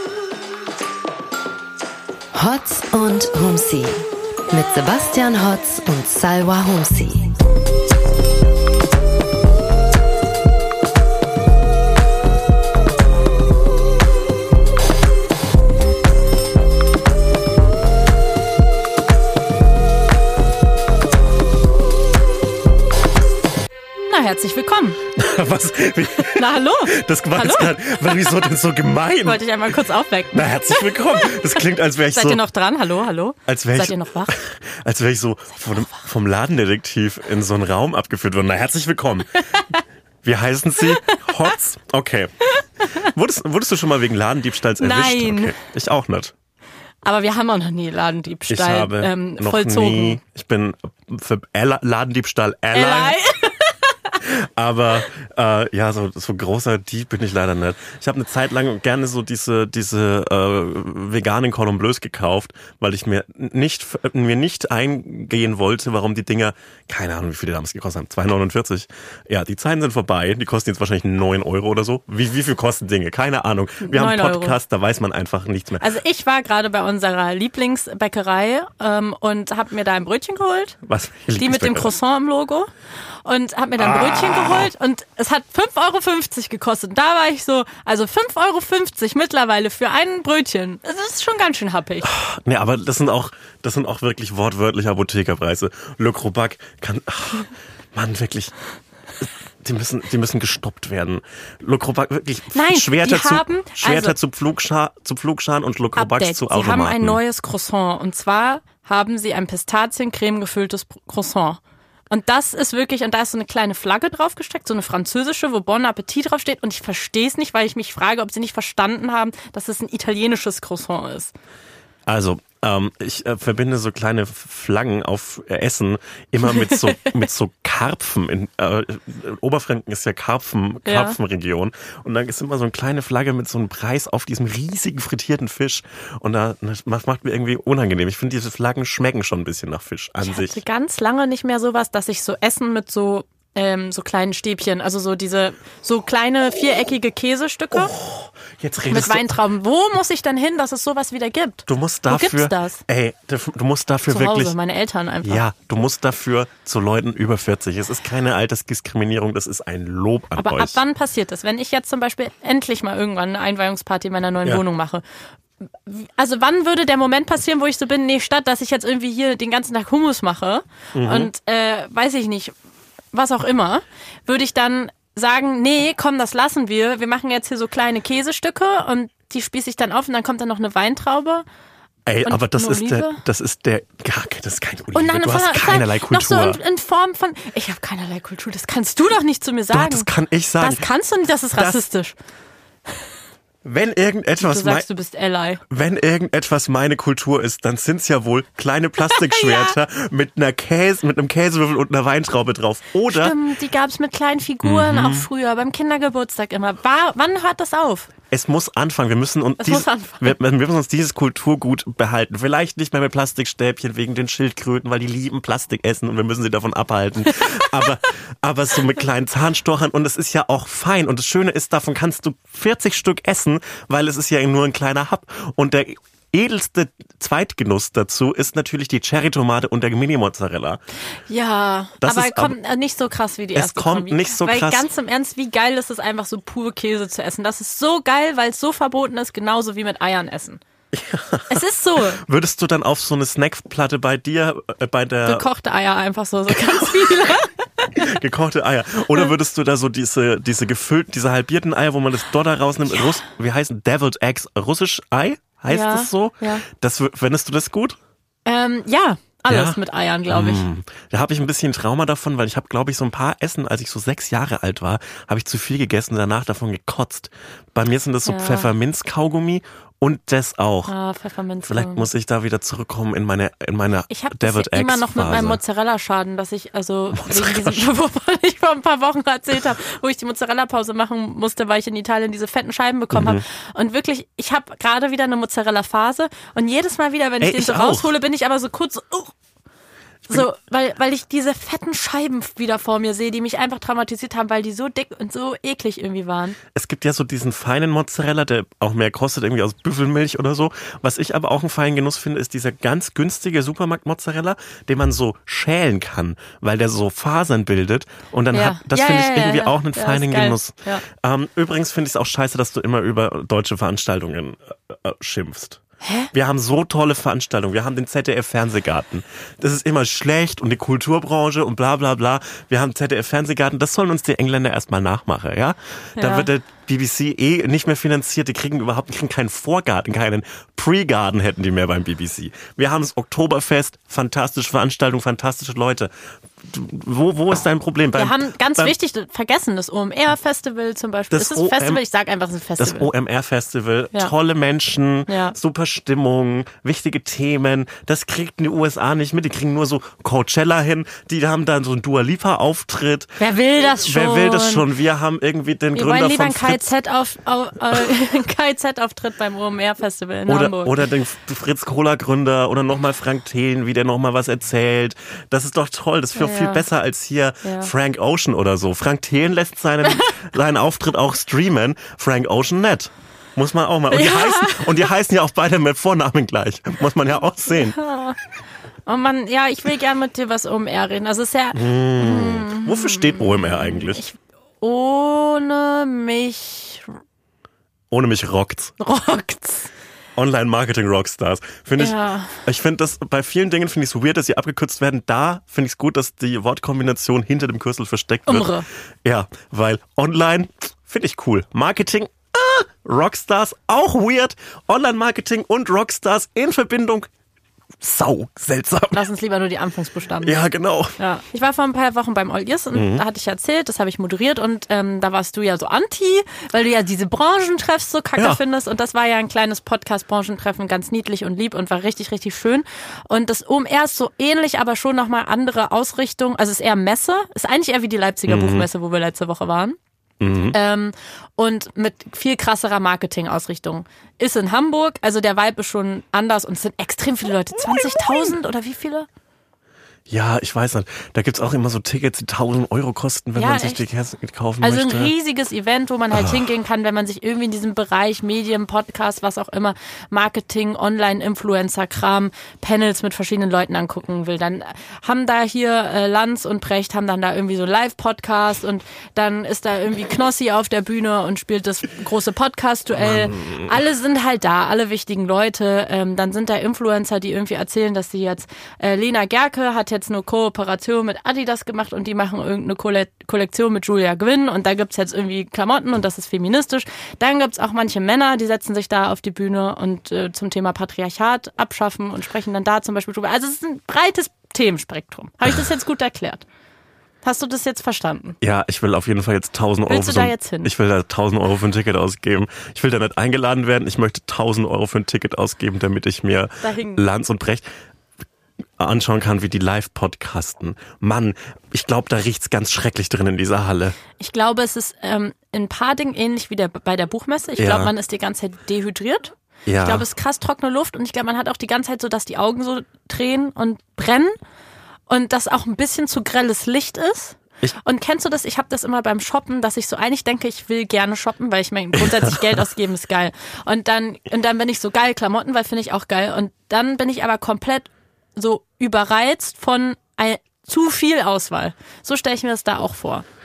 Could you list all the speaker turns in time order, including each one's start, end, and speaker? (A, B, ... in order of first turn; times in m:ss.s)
0:02.3-0:07.3 A
0:24.0-0:25.0 B
0:25.2-0:29.4 C
0:26.3-0:28.4 B
0:29.2-0:34.3 B
0:30.3-0:32.4 C
0:33.5-0:39.6 C
0:35.6-0:36.0 B
0:40.2-0:42.3 C
0:40.8-0:41.2 B
0:42.6-0:43.1 B
0:42.9-0:46.3 C
0:44.8-0:45.5 B
0:47.0-0:50.2 B
0:48.5-0:53.2 C
0:52.7-0:54.2 B
0:54.2-1:15.8 C
1:13.8-1:14.6 B
1:15.8-1:20.8 B
1:20.8-1:21.9 C
1:21.4-1:22.7 B
1:23.2-1:32.1 B
1:23.8-1:24.7 C
1:32.0-1:38.5 C
1:39.2-1:47.2 C
1:42.5-1:44.1 B
1:46.0-2:01.3 B
2:02.1-2:20.6 C
2:06.5-2:07.1 B
2:10.8-2:11.2 B
2:20.2-2:27.9 B
2:27.7-2:29.3 C
2:28.9-2:32.8 B
2:31.7-2:34.5 C
2:34.1-2:35.4 B
2:35.2-2:40.8 C
2:40.4-2:45.0 B
2:45.8-2:52.5 B
2:50.9-2:51.3 C
2:53.1-3:01.4 B
3:02.0-3:06.6 C
3:02.2-3:03.2 B
3:04.9-3:10.1 B
3:09.7-3:10.8 C
3:10.6-3:12.1 B
3:11.5-3:11.8 C
3:13.6-3:14.8 C
3:14.4-3:15.6 B
3:15.7-3:23.3 C
3:19.0-3:19.8 B
3:23.1-3:28.1 B
3:24.6-3:25.3 C
3:28.3-3:50.8 C
3:29.6-3:30.3 B
3:37.5-3:37.9 B
3:51.3-4:00.6 B
3:52.0-3:52.5 C
3:53.5-3:54.8 C
4:00.9-4:01.6 C
4:01.5-4:02.2 B
4:02.2-4:05.4 C
4:05.3-4:08.1 B
4:06.5-4:07.3 C
4:08.0-4:18.0 C
4:15.7-4:16.6 B
4:18.4-4:20.6 B
4:19.5-4:19.8 C
4:20.3-4:30.9 C
4:28.2-4:28.7 B
4:30.9-4:32.1 B
4:31.6-4:35.6 C
4:34.1-4:49.3 B
4:37.1-4:37.9 C
4:43.1-4:43.4 C
4:47.4-4:48.1 C
4:50.3-4:56.6 B
4:56.7-5:15.8 C
5:08.5-5:11.0 B
5:16.0-5:16.3 B
5:16.3-5:38.9 C
5:26.2-5:26.5 B
5:38.2-5:43.1 B
5:41.3-5:42.0 C
5:42.8-5:56.8 C
5:45.3-5:45.5 B
5:53.4-5:54.8 B
5:55.9-6:01.0 B
6:00.5-6:18.0 C
6:06.3-6:06.8 B
6:07.6-6:07.9 B
6:10.0-6:10.3 B
6:14.1-6:15.1 B
6:17.7-6:18.4 B
6:19.0-6:27.1 B
6:21.7-6:24.2 C
6:28.1-6:28.9 C
6:29.0-6:29.9 B
6:30.4-6:38.7 C
6:32.0-6:32.6 B
6:38.5-6:38.8 B
6:39.2-6:47.3 C
6:48.0-6:49.2 C
6:49.1-6:50.6 B
6:50.4-6:51.2 C
6:51.2-7:10.0 B
6:52.9-6:53.2 C
7:08.5-7:08.8 C
7:10.4-7:10.8 C
7:10.7-7:19.3 B
7:17.8-7:18.5 C
7:20.3-7:25.3 C
7:23.6-7:24.0 B
7:24.8-8:06.6 B
7:26.3-7:26.6 C
7:43.2-7:43.9 C
8:07.4-8:08.6 B
8:08.6-8:17.8 C
8:10.1-8:10.9 B
8:16.8-8:17.2 B
8:19.0-8:24.2 C
8:24.4-8:34.5 B
8:27.8-8:28.1 C
8:29.8-8:30.2 C
8:35.3-8:53.4 B
8:42.1-8:42.8 C